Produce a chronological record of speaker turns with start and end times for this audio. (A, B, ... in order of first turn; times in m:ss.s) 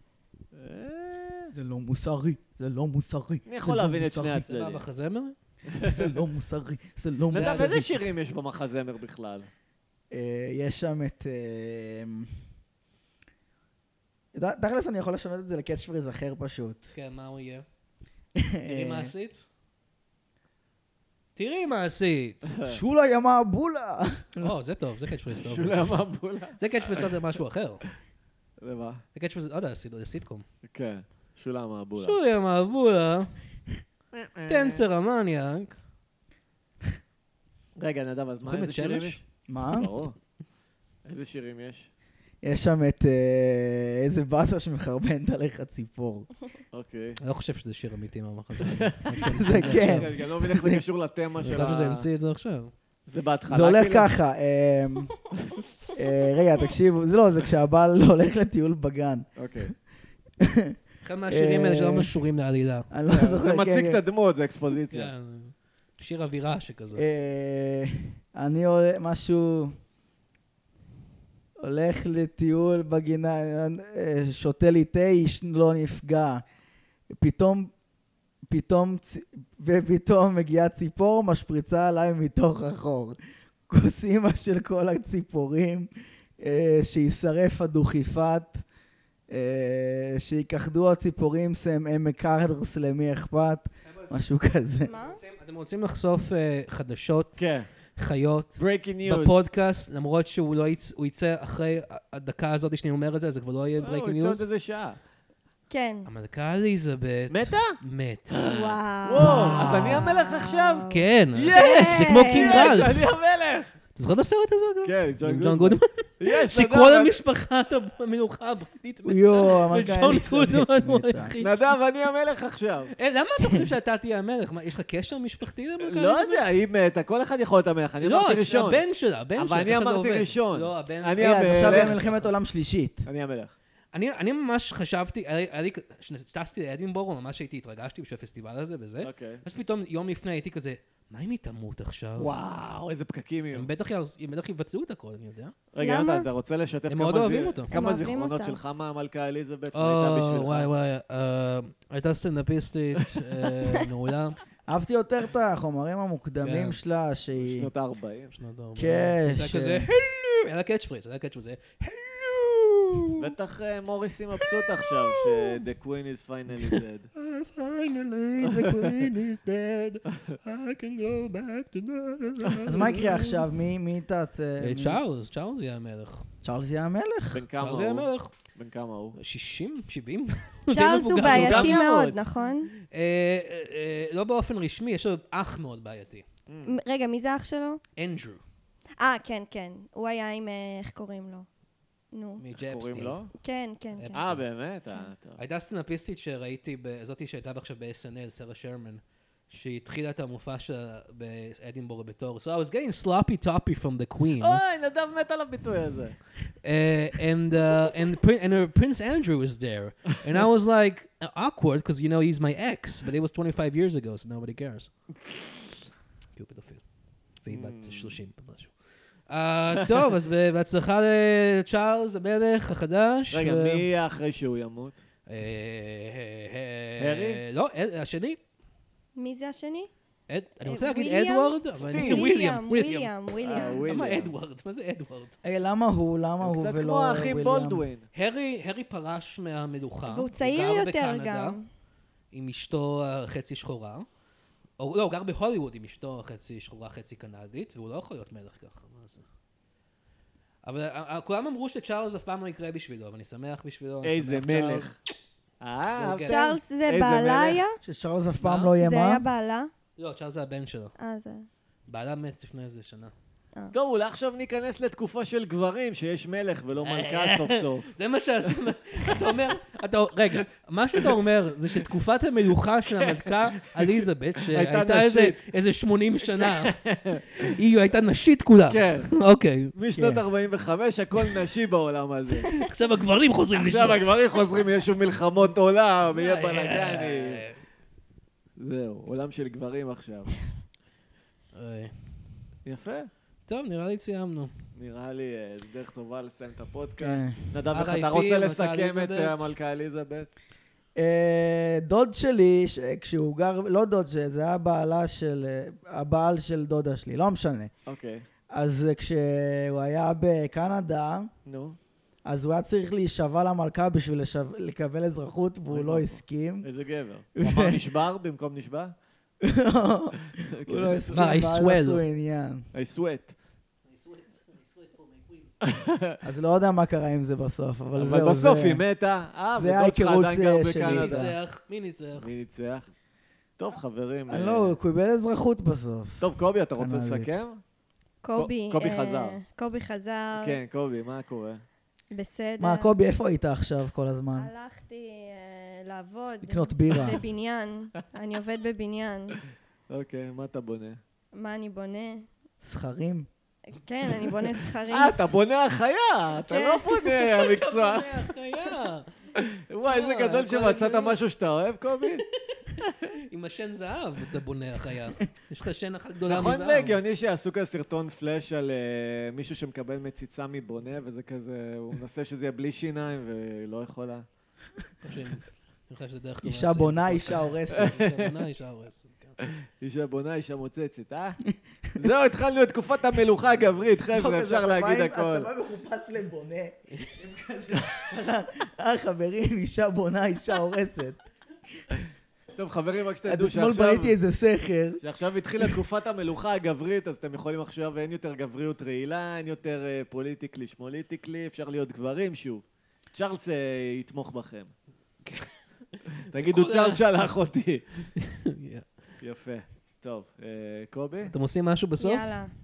0:00.5-0:01.5 A
0:01.5-0:04.4 B
0:03.4-0:04.8 A
0:04.4-0:05.3 C
0:05.7-0:06.1 A
0:05.8-0:08.0 B
0:07.3-0:07.8 C
0:07.3-0:09.5 A
0:10.1-0:12.3 B
0:14.3-0:16.9 B
0:16.9-0:17.6 C
0:18.4-0:19.1 B
0:18.7-0:19.4 C
0:21.4-0:22.5 C
0:22.4-0:22.8 A
0:22.6-0:24.5 B
0:24.4-0:26.0 C
0:25.3-0:27.1 A
0:26.6-0:27.8 C
0:28.6-0:29.0 A
0:29.1-0:30.4 C
0:30.6-0:32.2 A
0:32.0-0:33.3 C
0:34.1-0:34.8 A
0:34.5-0:35.8 C
0:37.8-0:40.2 A
0:38.4-0:39.2 C
0:39.5-0:39.9 B
0:41.0-0:41.9 A
0:42.4-0:46.3 B
0:46.7-0:47.2 A
0:47.2-0:50.1 C
0:48.6-0:52.1 A
0:49.3-0:50.8 B
0:51.4-0:52.7 C
0:53.1-0:54.1 A
0:53.5-0:55.1 B
0:56.0-0:59.7 B
0:59.4-0:59.7 A
1:00.4-1:00.8 B
1:01.0-1:02.9 C
1:01.3-1:02.1 B
1:02.9-1:04.0 B
1:03.1-1:05.1 A
1:04.9-1:07.0 C
1:06.9-1:09.7 B
1:11.6-1:16.4 B
1:17.1-1:17.7 B
1:18.5-1:23.2 B
1:23.7-1:25.9 B
1:26.4-1:28.6 B
1:29.3-1:34.9 B
1:34.8-1:35.2 D
1:34.8-1:44.4 C
1:37.4-1:37.7 A
1:38.6-1:39.4 A
1:43.8-1:45.0 A
1:45.7-1:46.1 D
1:46.0-1:48.6 C
1:47.3-1:47.8 A
1:48.4-1:52.8 D
1:49.0-1:53.8 A
1:49.2-1:50.0 C
1:50.9-1:53.1 C
1:53.9-2:01.8 C
1:54.8-1:57.2 A
1:59.0-2:01.3 B
2:01.4-2:02.9 A
2:03.0-2:06.5 C
2:05.8-2:08.8 A
2:08.0-2:12.3 C
2:09.4-2:12.0 A
2:11.2-2:13.0 B
2:13.0-2:13.6 A
2:13.9-2:22.3 C
2:19.0-2:19.4 A
2:22.2-2:23.7 A
2:23.5-2:25.5 C
2:25.7-2:30.7 A
2:25.8-2:26.3 D
2:26.9-2:27.7 C
2:27.7-2:28.6 D
2:29.7-2:34.4 C
2:34.7-2:37.7 B
2:36.4-2:36.8 C
2:37.4-2:38.3 A
2:38.3-2:43.3 C
2:38.8-2:39.9 B
2:43.2-2:47.1 A
2:44.4-2:45.6 C
2:46.6-2:53.3 C
2:48.6-2:49.0 A
2:52.4-2:52.7 A
2:52.6-2:55.0 B
2:53.1-2:53.4 D
2:54.6-2:56.2 C
2:56.4-2:57.4 B
2:57.3-2:59.2 A
2:57.6-2:58.3 C
2:59.2-3:01.8 C
3:00.7-3:02.7 D
3:01.2-3:02.2 A
3:02.9-3:06.2 C
3:06.5-3:06.8 A
3:06.6-3:07.8 D
3:08.0-3:08.4 C
3:09.0-3:11.5 D
3:12.1-3:12.4 D
3:12.4-3:13.3 C
3:12.6-3:13.3 A
3:13.4-3:14.2 D
3:14.0-3:14.4 C
3:14.1-3:15.4 A
3:15.4-3:24.6 C
3:24.4-3:26.2 A
3:26.6-3:34.9 C
3:36.3-3:36.8 C
3:37.4-3:38.8 C
3:37.5-3:38.2 A
3:39.3-3:43.9 C
3:43.3-3:45.0 A
3:45.3-3:48.4 C
3:47.0-3:47.4 A
3:49.2-3:49.9 D
3:50.3-3:55.3 C
3:50.6-3:53.8 D
3:51.8-3:52.3 A
3:53.4-3:54.3 A
3:55.4-3:57.8 B
3:56.4-3:58.1 A
3:58.1-4:01.6 C
4:00.1-4:01.6 D
4:02.3-4:04.0 C
4:04.8-4:09.2 C
4:10.6-4:14.9 C
4:14.0-4:15.0 A
4:15.6-4:17.6 A
4:15.9-4:16.4 C
4:16.3-4:17.8 D
4:17.8-4:19.2 B
4:18.4-4:18.7 C
4:18.8-4:19.7 D
4:20.0-4:20.9 C
4:21.0-4:21.5 D
4:21.9-4:23.1 C
4:23.7-4:27.9 A
4:26.8-4:36.8 C
4:32.9-4:35.4 A
4:36.2-4:37.4 A
4:37.4-4:39.7 C
4:38.7-4:39.1 A
4:39.7-4:42.5 A
4:39.9-4:40.2 B
4:42.5-4:44.1 C
4:43.5-4:47.4 A
4:46.1-4:47.6 C
4:48.6-4:50.3 A
4:51.5-4:51.9 C
4:52.6-4:53.1 A
4:53.5-4:54.5 C
4:54.7-5:00.3 A
4:57.0-4:57.3 B
4:57.7-4:59.5 C
5:01.0-5:07.7 B
5:07.8-5:08.2 A
5:08.5-5:11.3 B
5:11.4-5:11.8 A
5:12.2-5:16.6 B
5:15.7-5:18.9 A
5:17.4-5:17.8 B
5:19.4-5:22.7 B
5:20.5-5:21.2 A
5:21.1-5:22.0 C
5:22.7-5:23.3 A
5:23.9-5:25.5 C
5:25.6-5:26.2 A
5:26.2-5:28.8 B
5:27.9-5:31.3 A
5:29.5-5:31.3 B
5:30.8-5:32.3 C
5:32.2-5:32.9 A
5:33.6-5:34.7 A
5:34.3-5:37.3 B
5:36.2-5:37.6 A
5:38.2-5:40.6 D
5:38.3-5:39.4 A
5:40.4-5:41.6 A
5:42.1-5:42.9 D
5:42.6-5:44.5 B
5:44.4-5:49.4 D
5:46.4-5:47.2 B
5:49.9-5:51.0 A
5:51.3-5:52.3 D
5:52.6-5:53.3 B
5:53.7-5:55.2 D
5:54.8-5:58.3 A
5:56.4-5:57.5 D
5:57.4-5:59.1 C
5:59.4-6:02.2 A
5:59.9-6:01.2 C
6:02.4-6:07.0 C
6:06.3-6:14.2 A
6:15.0-6:19.4 C
6:16.4-6:18.0 B
6:17.7-6:18.4 A
6:19.5-6:21.4 A
6:22.0-6:25.5 A
6:24.1-6:31.2 B
6:26.9-6:27.2 C
6:32.6-6:34.1 A
6:33.3-6:35.0 B
6:35.0-6:44.7 A
6:45.2-6:47.0 C
6:46.2-6:47.8 A
6:48.2-6:48.9 C
6:49.2-6:51.3 A
6:51.3-6:52.3 C
6:52.0-6:52.5 D